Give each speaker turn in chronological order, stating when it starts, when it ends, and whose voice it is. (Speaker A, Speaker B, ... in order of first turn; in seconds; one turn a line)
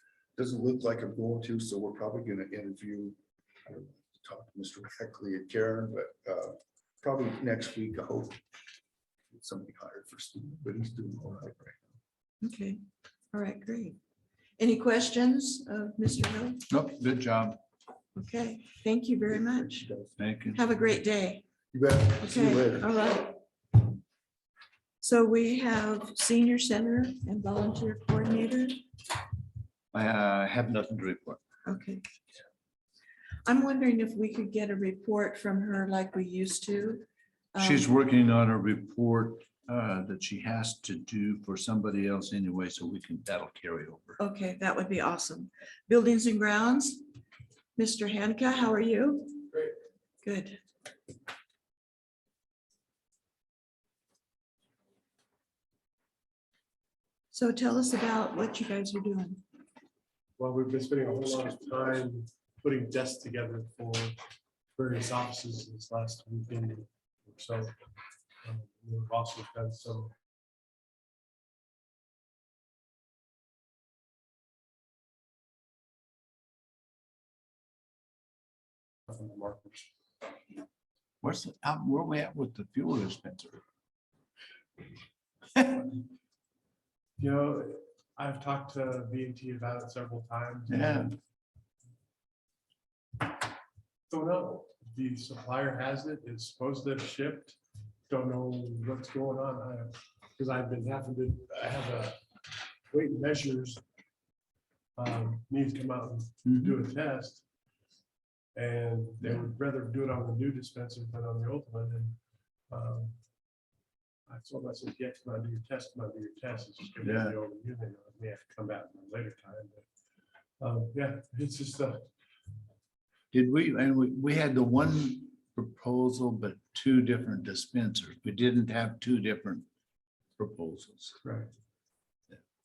Speaker A: 0.4-8.4
Speaker A: 9.3-12.0
Speaker B: 12.4-12.8
Speaker B: 13.3-14.0
Speaker B: 14.6-16.6
Speaker C: 16.7-17.6
Speaker B: 18.1-19.9
Speaker A: 19.4-20.2
Speaker C: 20.2-20.6
Speaker B: 20.5-21.4
Speaker A: 21.7-22.9
Speaker B: 22.2-23.4
Speaker B: 25.0-28.8
Speaker C: 29.9-31.4
Speaker B: 31.6-32.1
Speaker B: 33.4-37.9
Speaker C: 37.6-44.2
Speaker B: 44.2-47.0
Speaker B: 47.8-49.5
Speaker B: 50.2-50.6
Speaker B: 57.3-59.4
Speaker D: 60.4-64.2
Speaker D: 64.7-67.7
Speaker D: 68.4-70.1
Speaker D: 79.1-79.9
Speaker C: 81.2-83.6
Speaker C: 85.6-85.8
Speaker D: 87.2-91.1
Speaker C: 90.7-91.2
Speaker D: 94.1-102.2
Speaker D: 102.9-103.8
Speaker D: 105.0-107.4
Speaker C: 106.5-106.8
Speaker D: 108.5-113.2
Speaker D: 114.3-119.9
Speaker C: 117.0-117.3
Speaker D: 120.6-122.1
Speaker C: 123.3-129.7
Speaker C: 130.4-131.2
Speaker D: 131.2-131.5